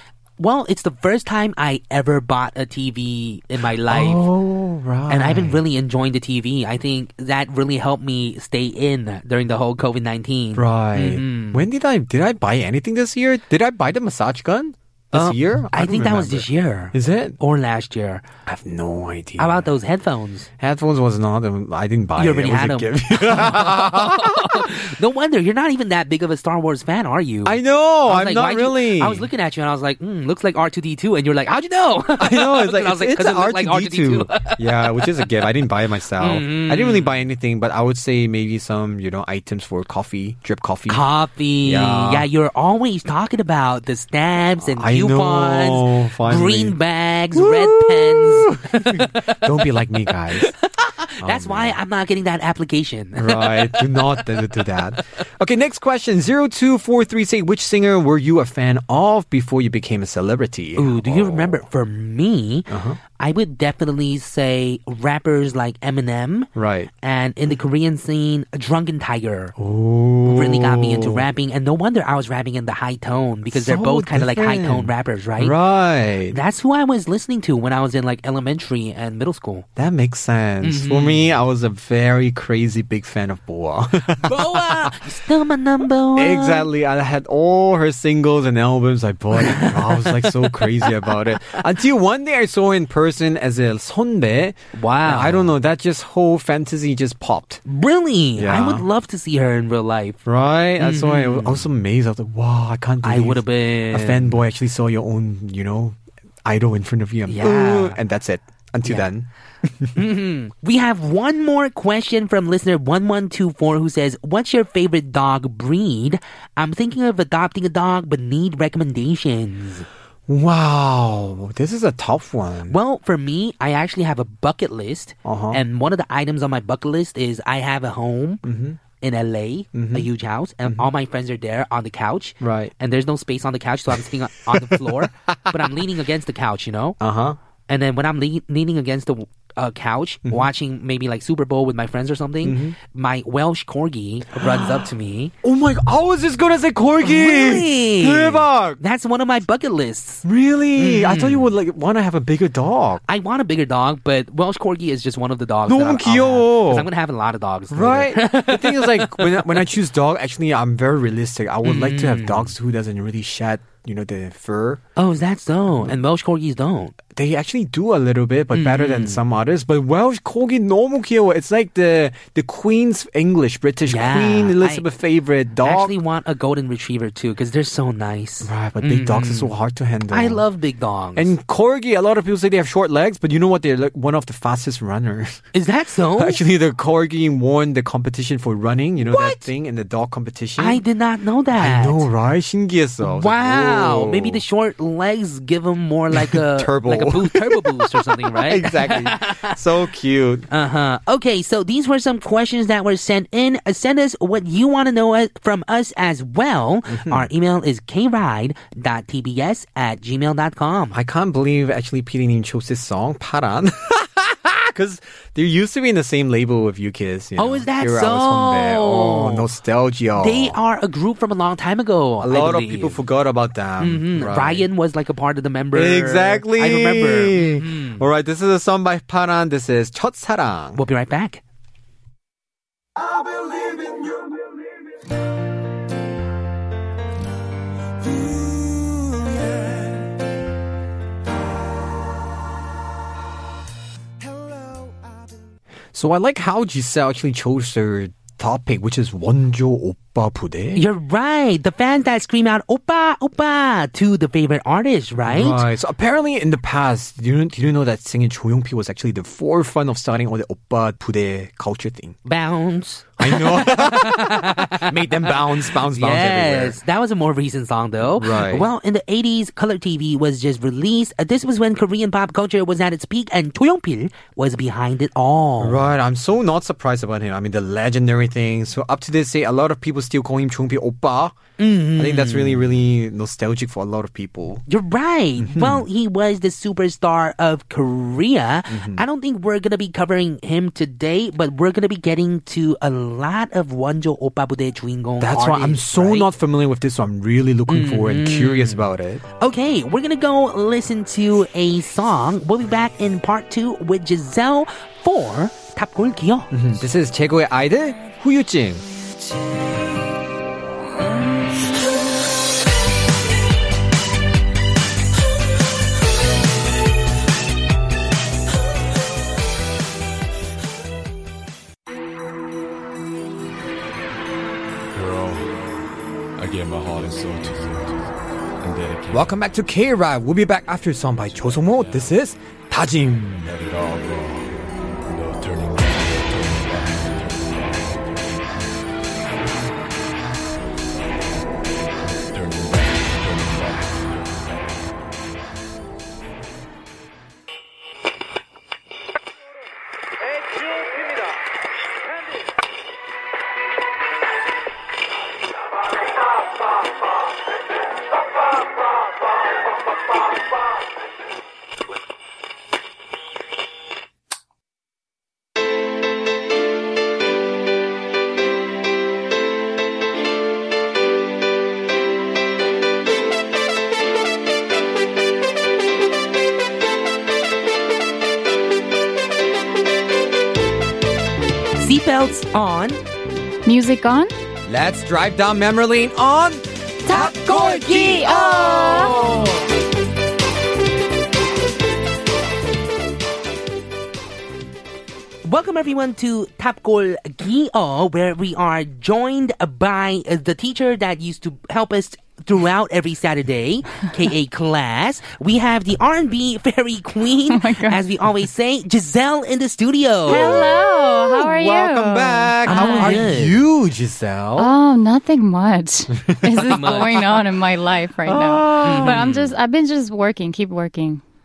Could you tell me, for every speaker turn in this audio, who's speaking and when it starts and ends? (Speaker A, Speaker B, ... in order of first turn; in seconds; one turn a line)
Speaker A: 0.4-4.3
Speaker B: 3.9-5.6
Speaker A: 5.1-11.7
Speaker B: 10.6-17.4
Speaker A: 15.1-18.3
Speaker B: 18.5-19.7
Speaker A: 19.4-20.5
Speaker B: 20.6-24.9
Speaker A: 22.2-35.5
Speaker B: 27.4-29.3
Speaker B: 32.2-41.1
Speaker A: 36.2-37.2
Speaker A: 40.9-49.4
Speaker B: 41.6-42.3
Speaker B: 44.6-46.8
Speaker B: 47.3-50.5
Speaker A: 50.3-54.8
Speaker B: 51.2-51.8
Speaker B: 53.2-61.7
Speaker A: 60.8-66.5
Speaker B: 62.7-63.0
Speaker B: 66.6-66.9
Speaker A: 67.0-69.5
Speaker B: 69.6-71.3
Speaker A: 70.3-75.5
Speaker B: 73.5-76.4
Speaker A: 76.3-79.7
Speaker B: 79.8-85.1
Speaker A: 80.6-81.3
Speaker A: 84.2-86.7
Speaker B: 86.2-97.6
Speaker A: 89.4-91.6
Speaker A: 94.8-95.5
Speaker A: 97.7-100.2
Speaker B: 98.4-98.9
Speaker B: 100.3-110.0
Speaker A: 100.8-101.7
Speaker A: 103.0-104.4
Speaker A: 107.3-108.0
Speaker A: 110.0-119.9
Speaker B: 120.3-122.8
Speaker A: 122.7-128.4
Speaker B: 125.2-125.6
Speaker B: 128.4-128.8
Speaker A: 129.0-137.0
Speaker B: 129.7-130.1
Speaker B: 132.4-132.7
Speaker B: 134.5-135.6
Speaker B: 137.0-137.4
Speaker A: 137.7-145.3
Speaker B: 142.4-142.8
Speaker B: 144.4-144.8
Speaker B: 145.4-148.8
Speaker A: 147.0-150.2
Speaker B: 150.2-153.0
Speaker A: 150.8-151.5
Speaker A: 153.1-159.7
Speaker B: 155.7-156.9
Speaker B: 157.7-164.8
Speaker A: 161.6-162.5
Speaker A: 165.0-166.9
Speaker B: 167.1-175.9
Speaker A: 168.5-169.2
Speaker A: 173.9-174.9
Speaker A: 175.6-179.5
Speaker B: 178.4-180.4
Speaker A: 180.1-181.3
Speaker B: 181.2-185.4
Speaker A: 185.5-186.4
Speaker B: 186.2-190.8
Speaker A: 189.0-189.5
Speaker A: 190.6-192.1
Speaker B: 191.5-194.4
Speaker A: 193.0-199.6
Speaker B: 196.1-200.5
Speaker A: 200.5-211.0
Speaker B: 206.9-207.3
Speaker B: 210.9-220.6
Speaker A: 217.4-219.5
Speaker A: 220.2-223.0
Speaker B: 222.2-224.7
Speaker A: 223.8-228.0
Speaker B: 225.7-230.8
Speaker A: 230.7-231.4
Speaker C: 233.1-234.2
Speaker B: 245.9-250.9
Speaker A: 250.8-255.6
Speaker B: 255.3-262.2
Speaker A: 262.2-275.9
Speaker B: 263.2-266.8
Speaker B: 268.1-268.7
Speaker B: 275.6-284.6
Speaker A: 281.6-282.7
Speaker A: 284.7-296.3
Speaker B: 285.4-285.9
Speaker B: 288.7-289.1
Speaker B: 295.2-299.2
Speaker A: 297.7-298.9
Speaker A: 299.4-306.5
Speaker B: 306.5-308.8
Speaker C: 324.9-329.4
Speaker B: 329.1-333.5
Speaker C: 331.1-332.1
Speaker C: 333.1-338.8
Speaker C: 341.0-345.0
Speaker A: 381.8-383.0
Speaker D: 383.7-384.3
Speaker B: 384.7-389.5
Speaker D: 387.1-389.4
Speaker A: 387.1-389.5
Speaker A: 395.4-410.7
Speaker D: 407.5-408.0
Speaker B: 410.3-414.7
Speaker D: 410.3-413.3
Speaker A: 412.7-413.6
Speaker D: 414.6-421.2
Speaker A: 416.6-417.4
Speaker B: 418.3-419.4
Speaker A: 418.8-419.5